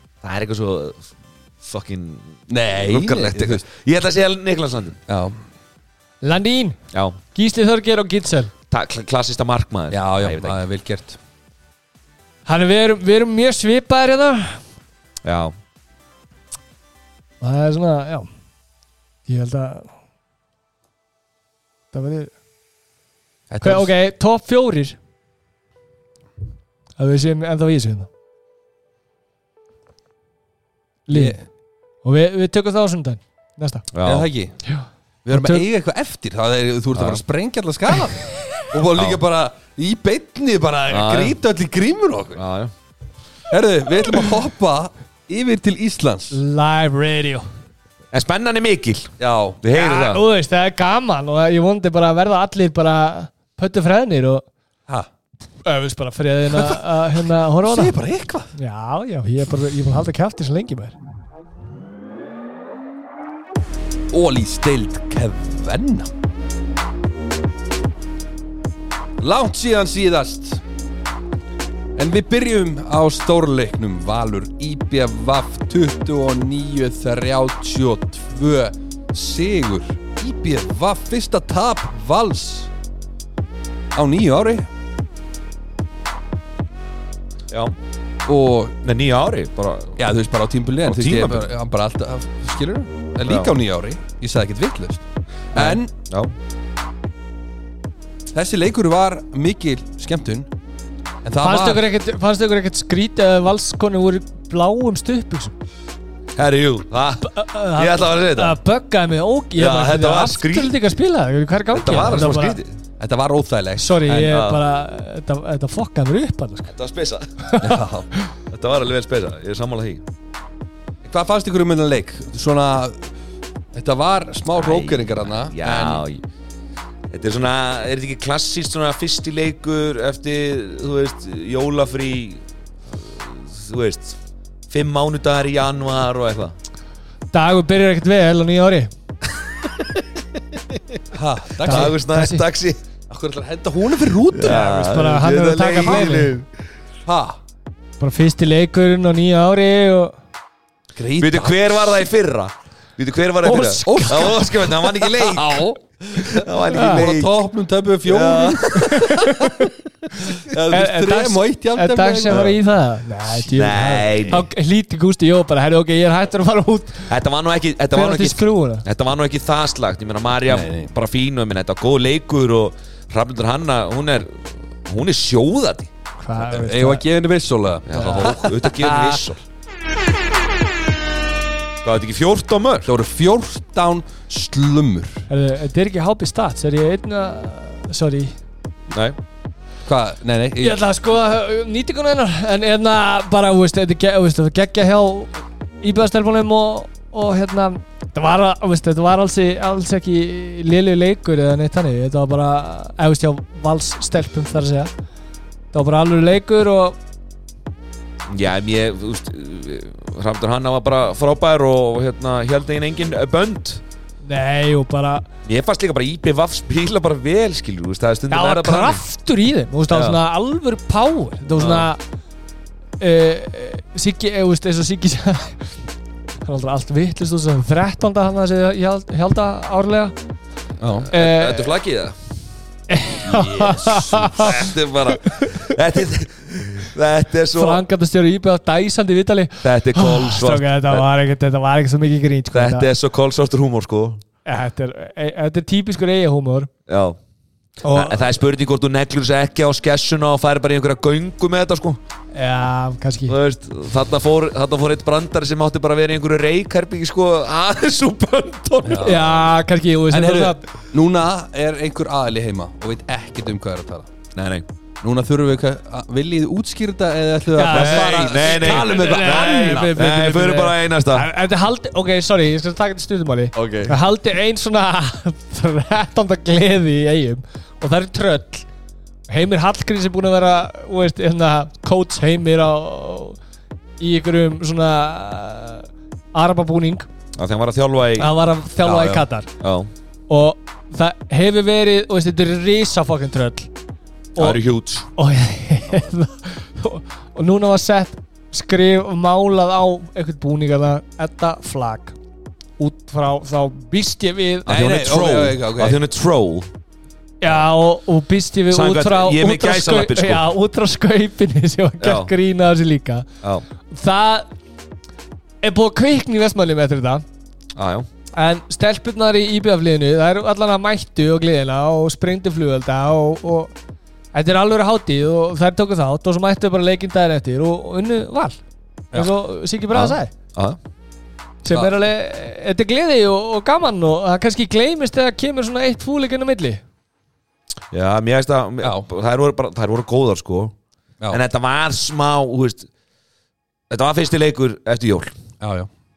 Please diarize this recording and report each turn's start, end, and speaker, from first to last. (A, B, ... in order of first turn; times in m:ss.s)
0:00.2-0:05.0 A
0:02.5-0:03.6 B
0:05.1-0:05.4 B
0:06.2-0:06.8 C
0:06.9-0:07.2 A
0:07.3-0:08.5 C
0:08.7-0:10.6 A
0:09.9-0:11.2 B
0:12.4-0:14.6 C
0:15.2-0:15.5 A
0:17.4-0:18.3 C
0:19.3-0:19.9 C
0:21.9-0:22.3 C
0:23.5-0:23.9 B
0:23.6-0:25.0 C
0:27.0-0:28.1 C
0:31.1-0:31.4 C
0:31.1-0:31.4 B
0:32.0-0:33.8 C
0:33.9-0:34.3 A
0:34.0-0:34.6 B
0:34.6-0:35.6 C
0:35.2-0:42.4 B
0:36.9-0:37.2 A
0:38.9-0:39.2 A
0:40.9-0:41.4 A
0:42.4-0:42.7 A
0:43.5-0:46.4 B
0:46.3-0:47.4 C
0:48.1-0:50.2 A
0:49.2-0:49.6 B
0:49.7-0:54.4 C
0:55.6-0:58.0 C
0:56.5-0:58.5 B
0:58.5-1:01.0 C
1:04.1-1:06.1 B
1:09.2-1:10.6 B
1:12.0-1:22.7 B
1:23.9-1:24.6 B
1:27.5-1:27.7 A
1:28.3-1:28.8 B
1:28.8-1:30.0 A
1:30.0-1:35.9 B
1:30.8-1:31.5 A
1:33.2-1:33.5 A
1:35.5-1:36.3 A
1:38.3-1:40.5 B
1:41.2-1:41.8 B
1:41.4-1:45.6 C
1:46.4-1:48.6 A
1:47.2-1:52.6 C
1:49.6-1:50.8 A
1:51.7-1:52.7 A
1:52.0-1:52.3 B
1:53.0-1:54.4 B
1:53.8-1:56.7 C
1:54.3-1:54.6 A
1:56.7-1:57.3 A
1:57.4-1:58.3 C
1:57.6-1:58.1 B
1:58.5-2:00.0 A
2:01.0-2:03.1 B
2:03.7-2:06.0 B
2:04.5-2:06.2 A
2:07.1-2:14.2 A
2:14.7-2:16.5 A
2:17.3-2:18.9 C
2:19.6-2:21.0 A
2:21.1-2:21.9 B
2:21.6-2:22.8 A
2:21.6-2:22.4 C
2:23.1-2:24.7 B
2:24.3-2:26.5 A
2:24.4-2:26.3 C
2:25.9-2:26.1 B
2:27.0-2:27.4 B
2:28.0-2:30.1 C
2:31.0-2:32.0 B
2:31.2-2:37.3 A
2:33.5-2:39.6 B
2:33.5-2:34.3 C
2:36.7-2:37.0 C
2:38.0-2:39.1 A
2:38.8-2:39.7 C
2:40.2-2:42.6 B
2:40.7-2:47.1 C
2:42.3-2:42.5 A
2:43.4-2:44.5 A
2:47.1-2:55.9 A
2:47.9-2:48.8 C
2:50.5-2:50.9 B
2:56.2-2:57.0 C
2:56.4-2:59.2 B
2:57.9-2:59.4 A
2:57.9-2:58.3 C
3:01.8-3:02.9 A
3:02.8-3:05.3 B
3:05.3-3:08.4 C
3:08.9-3:09.2 A
3:09.8-3:10.8 B
3:10.6-3:24.9 C
3:25.7-3:27.0 C
3:28.3-3:33.8 A
3:34.2-3:35.3 C
3:35.4-3:39.0 A
3:38.3-3:42.0 C
3:39.9-3:40.2 A
3:41.6-3:41.9 A
3:43.0-3:45.7 C
3:46.4-3:50.1 C
3:50.8-3:51.1 B
3:51.0-3:52.2 A
3:51.1-3:51.7 C
3:52.9-3:55.7 C
3:53.2-3:54.6 B
3:54.4-3:57.8 A
3:57.5-4:02.9 C
3:59.6-4:01.0 A
4:02.5-4:04.2 A
4:04.4-4:06.7 C
4:06.9-4:07.2 A
4:07.8-4:08.4 C
4:07.9-4:12.0 A
4:12.3-4:13.4 C
4:13.3-4:19.3 A
4:18.8-4:19.2 B
4:19.0-4:20.6 C
4:20.1-4:24.1 B
4:24.3-4:24.7 A
4:25.0-4:30.0 B
4:27.5-4:38.7 C
4:27.7-4:31.3 A
4:33.5-4:33.9 A
4:39.3-4:43.4 C
4:44.0-4:47.1 C
4:47.4-4:49.9 A
4:48.2-4:49.5 C
4:50.3-4:53.7 C
4:54.4-4:54.6 C
4:54.4-4:55.1 A
4:55.2-5:02.2 C
5:02.8-5:04.8 C
5:04.7-5:06.7 A
5:04.7-5:06.0 B
5:07.4-5:13.2 C
5:08.7-5:10.5 A
5:12.0-5:12.3 A
5:13.9-5:14.5 C
5:15.6-5:17.2 C
5:17.7-5:18.1 A
5:18.3-5:23.7 C
5:24.3-5:28.6 C
5:29.1-5:30.3 C
5:29.9-5:30.8 A
5:31.6-5:36.8 C
5:37.9-5:40.7 A
5:38.8-5:39.1 B
5:41.3-5:42.9 A
5:43.9-5:45.3 A
5:45.6-5:45.9 B